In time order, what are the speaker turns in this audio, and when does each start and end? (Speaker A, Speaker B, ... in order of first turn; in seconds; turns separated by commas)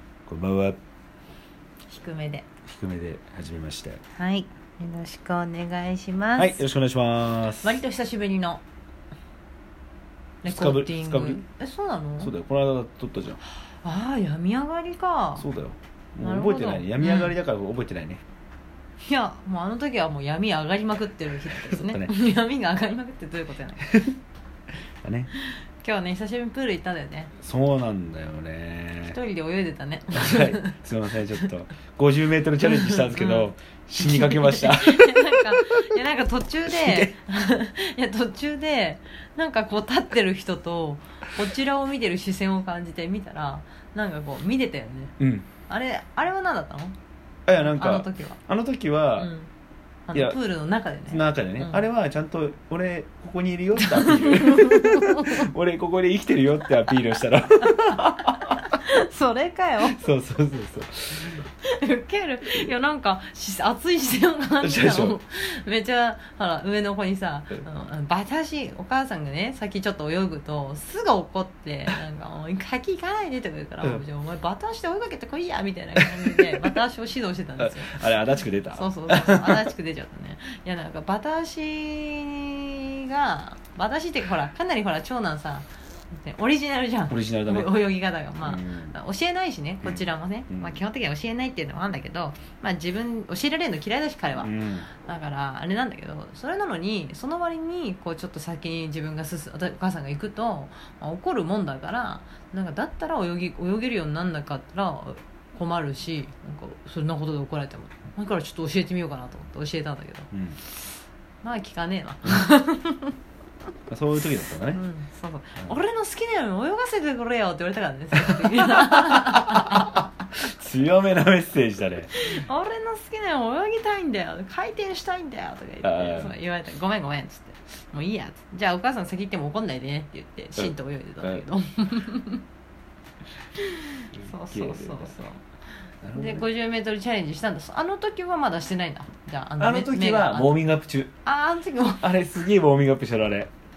Speaker A: 0.3-0.8, Speaker B: 1.9-2.5, Speaker A: 2.7-4.0, Speaker B: 4.2-6.7, Speaker A: 6.4-7.8, Speaker B: 7.6-8.6, Speaker B: 10.4-12.3, Speaker A: 10.4-11.4, Speaker A: 12.2-13.4, Speaker B: 13.7-15.5, Speaker A: 15.4-18.2, Speaker B: 16.2-17.4, Speaker B: 19.0-24.1, Speaker A: 21.5-22.1, Speaker A: 25.0-25.3, Speaker B: 25.4-27.3, Speaker A: 27.4-29.2, Speaker B: 29.1-30.8, Speaker A: 30.1-35.8, Speaker B: 32.7-33.5, Speaker B: 34.0-47.0, Speaker A: 36.7-37.1, Speaker A: 45.2-45.5, Speaker A: 47.5-49.3, Speaker B: 47.5-48.4, Speaker B: 49.2-49.5, Speaker B: 50.1-51.9, Speaker A: 50.1-50.4, Speaker A: 51.1-58.6, Speaker B: 53.8-55.5, Speaker B: 58.2-60.0, Speaker A: 59.9-61.4, Speaker B: 61.2-78.1, Speaker A: 64.6-65.2, Speaker A: 76.0-76.4, Speaker A: 77.6-79.7, Speaker B: 78.7-110.3, Speaker A: 87.1-87.7, Speaker A: 88.4-89.0, Speaker A: 89.8-90.8, Speaker A: 94.4-94.9, Speaker A: 110.3-110.6, Speaker B: 111.4-113.2, Speaker A: 113.9-114.8, Speaker B: 114.7-120.0, Speaker A: 118.5-122.1, Speaker B: 122.2-132.4, Speaker A: 125.8-126.3, Speaker A: 130.6-131.4, Speaker B: 133.6-135.4, Speaker A: 134.1-135.2, Speaker A: 136.0-136.5, Speaker B: 136.1-140.7, Speaker A: 139.6-141.1, Speaker B: 141.2-142.0, Speaker A: 142.0-143.5